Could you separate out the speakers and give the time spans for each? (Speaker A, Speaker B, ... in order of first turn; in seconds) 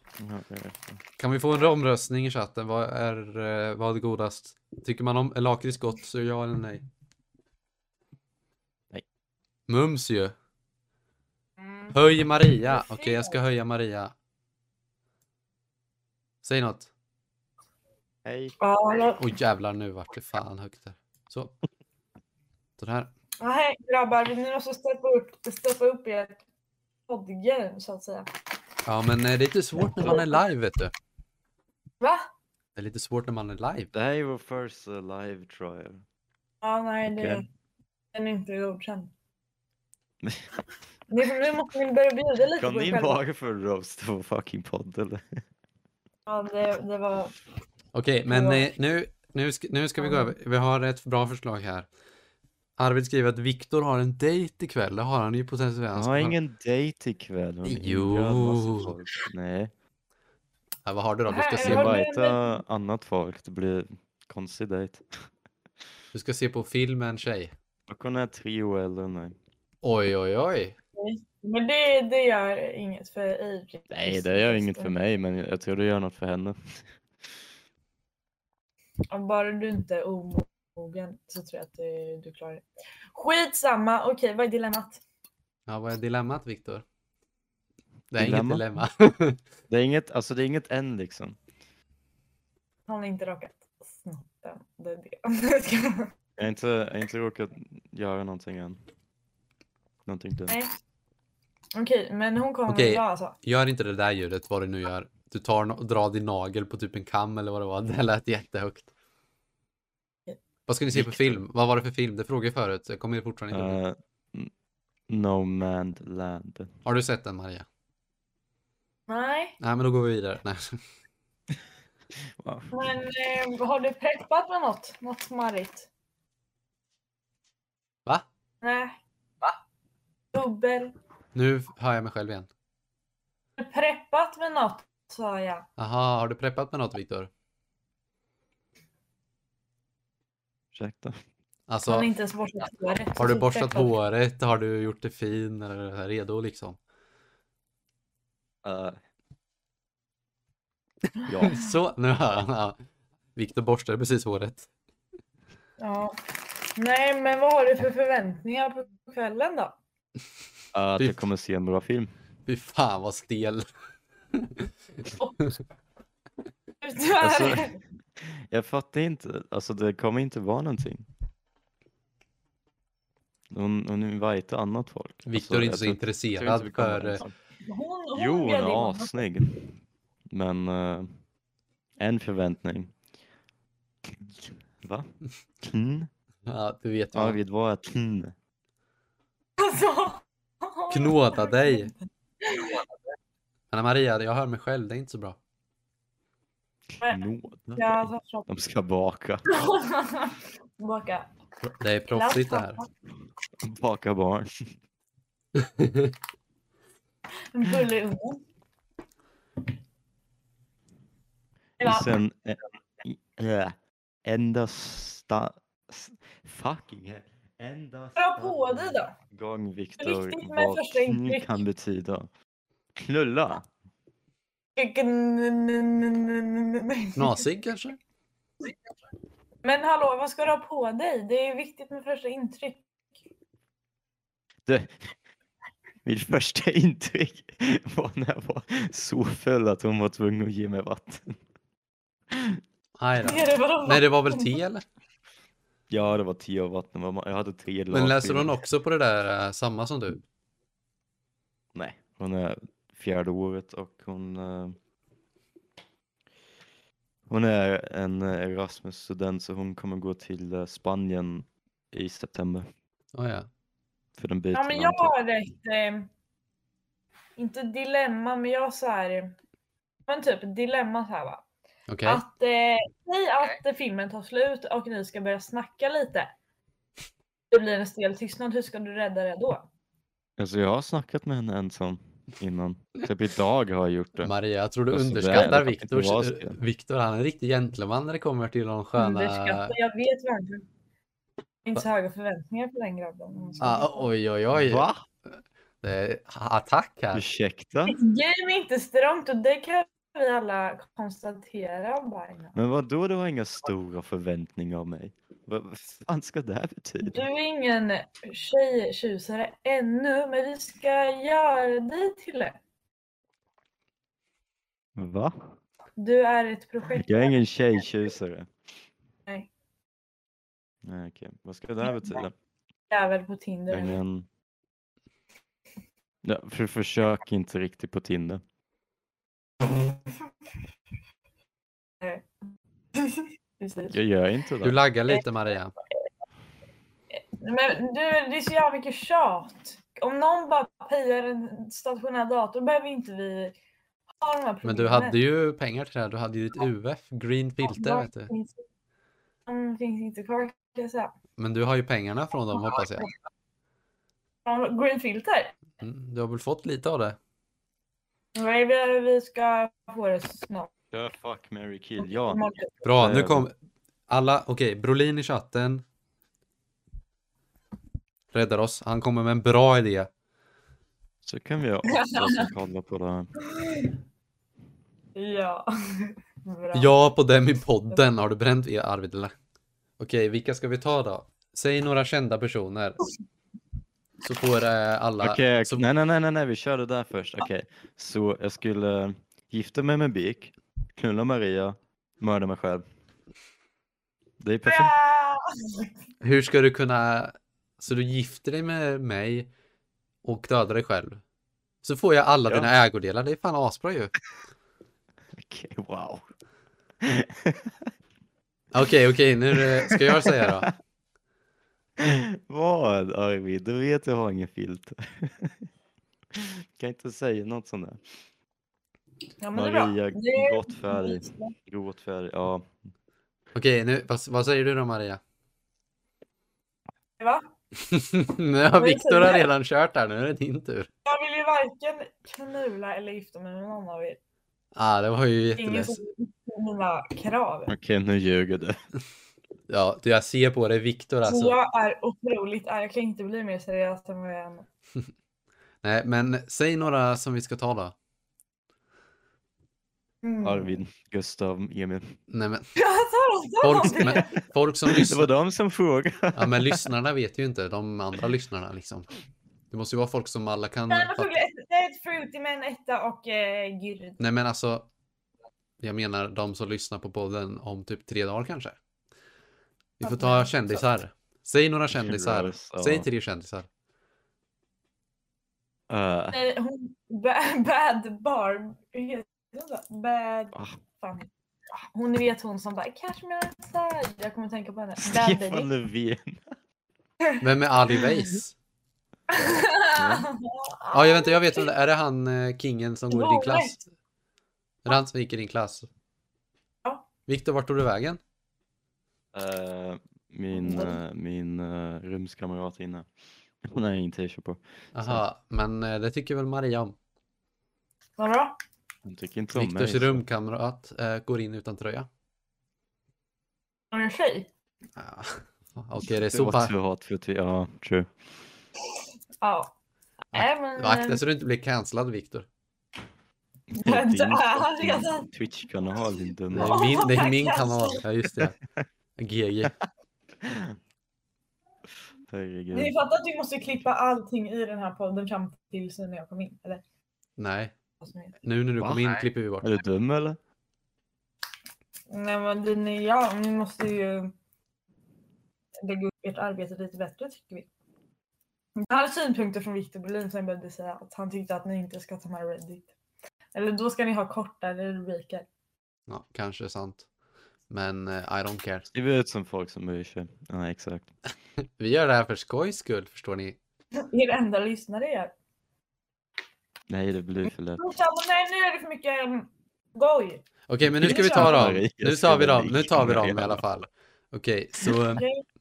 Speaker A: 0.2-1.0, 18.2-18.5, 33.9-36.0, 37.1-37.4, 40.2-40.5, 42.5-45.4, 55.9-59.7, 61.6-65.0, 67.9-69.4, 73.9-76.9, 88.2-88.6, 89.7-91.4, 96.4-98.8, 100.0-100.6, 110.9-111.4, 113.5-114.5, 115.1-116.7, 122.2-122.8, 140.7-141.2, 148.6-149.0, 151.2-151.6, 160.7-162.1, 167.2-171.1, 173.5-177.3, 178.1-179.7, 180.3-181.2, 182.0-182.9, 184.1-186.1, 187.1-188.3, 196.9-199.5, 203.6-204.5, 211.8-222.3, 222.9-223.7, 234.7-235.1, 236.0-241.4, 242.3-242.6, 245.9-248.6, 251.7-254.8, 257.3-262.7, 264.2-265.1, 280.4-284.3, 284.9-286.6, 294.5-295.0, 297.1-298.0, 302.5-307.2, 314.9-315.5, 316.8-318.5, 320.8-322.3, 323.7-324.3, 326.2-328.4, 333.9-334.8, 360.9-363.5, 371.2-373.3, 385.2-392.8, 394.4-394.9, 405.3-406.2, 407.0-407.9, 409.5-410.7, 412.0-415.6, 416.3-418.0, 419.5-422.7, 437.7-438.8, 450.4-452.2, 454.9-456.9, 471.9-473.1, 475.9-476.4, 485.0-486.5, 489.3-490.3, 499.3-503.1, 503.6-505.2, 509.0-510.2, 516.1-518.1, 523.8-527.2, 530.4-530.8, 532.3-532.9, 538.8-540.4, 558.9-561.1, 566.9-567.8, 570.8-573.6
Speaker B: 1.2-6.8, 9.7-10.3, 11.9-14.1, 16.4-16.9, 19.2-21.5, 22.8-23.1, 28.8-30.9, 32.8-33.9, 47.9-51.9, 52.8-56.4, 57.6-58.9, 60.9-62.0, 66.1-67.5, 69.8-70.8, 85.7-86.8, 88.1-89.4, 102.7-108.9, 110.7-113.8, 116.8-117.7, 119.6-120.8, 131.3-132.5, 135.8-137.3, 141.7-142.1, 143.2-146.8, 151.4-152.8, 153.3-154.7, 162.4-163.7, 164.3-164.7, 175.2-177.2, 186.4-187.4, 190.9-191.9, 193.7-195.4, 201.6-202.8, 205.6-206.1, 227.2-228.0, 243.0-244.8, 247.9-250.2, 263.1-263.5, 271.9-272.2, 284.2-289.7, 293.6-297.2, 334.6-335.7, 344.6-348.3, 351.4-353.1, 355.8-357.2, 362.8-363.5, 364.1-365.8, 368.3-370.1, 376.7-379.3, 380.0-383.0, 384.2-385.8, 396.2-399.5, 400.2-401.2, 401.8-404.1, 408.7-410.7, 423.5-425.2, 427.8-430.9, 434.7-436.0, 439.7-441.6, 445.8-447.9, 452.3-452.7, 453.6-455.3, 456.3-459.1, 459.7-461.3, 464.2-464.9, 465.8-468.8, 470.0-473.7, 487.4-488.5, 490.9-493.9, 494.8-495.9, 497.3-498.2, 504.9-506.9, 509.5-512.1, 515.0-516.7, 520.3-522.5, 526.5-528.5, 529.2-529.7, 537.4-537.7, 538.4-539.8, 556.1-557.0, 557.7-558.9, 561.8-563.6, 570.7-575.2
Speaker C: 11.6-11.9, 12.7-13.4, 18.6-19.2, 23.4-26.4, 27.1-28.3, 30.0-30.3, 32.0-32.3, 36.6-37.5, 38.1-39.1, 41.1-43.2, 46.2-47.3, 48.3-48.7, 50.0-50.3, 61.3-62.5, 71.0-74.9, 79.1-85.0, 92.9-96.1, 101.7-103.3, 119.1-119.6, 122.7-125.9, 128.6-129.0, 130.3-130.9, 133.6-135.7, 141.8-143.9, 155.8-156.2, 156.7-159.8, 166.8-167.8, 177.6-179.2, 189.6-192.8, 197.8-198.5, 199.5-201.3, 202.1-202.9, 207.5-208.4, 211.8-212.1, 218.2-219.1, 220.0-221.6, 224.8-227.4, 229.6-232.8, 243.2-244.5, 264.5-266.1, 267.4-269.4, 270.1-271.4, 272.1-276.3, 277.5-279.7, 289.0-290.6, 291.6-294.1, 297.9-302.6, 307.0-312.6, 316.0-317.3, 322.9-324.0, 332.0-332.3, 332.9-334.0, 337.1-343.5, 344.2-345.2, 347.6-348.6, 349.4-351.1, 354.4-355.5, 358.3-360.7, 362.0-362.7, 371.9-372.5, 373.5-373.9, 375.1-376.9, 394.6-395.9, 419.4-421.5, 427.2-427.4, 428.7-429.5, 431.0-434.2, 435.6-437.7, 441.2-444.6, 450.2-450.7, 452.7-454.4, 460.9-464.2, 470.0-470.8, 476.3-481.3, 481.9-485.7, 489.3-491.6, 493.1-493.7, 500.5-501.0, 508.2-508.5, 513.9-514.5, 519.4-519.7, 520.3-521.2, 523.8-525.3, 526.5-528.0, 532.7-536.8, 538.0-538.4, 542.1-544.3, 545.8-547.7, 548.8-552.9, 553.5-555.5, 563.9-565.3, 567.8-570.4, 571.0-571.7, 575.1-575.4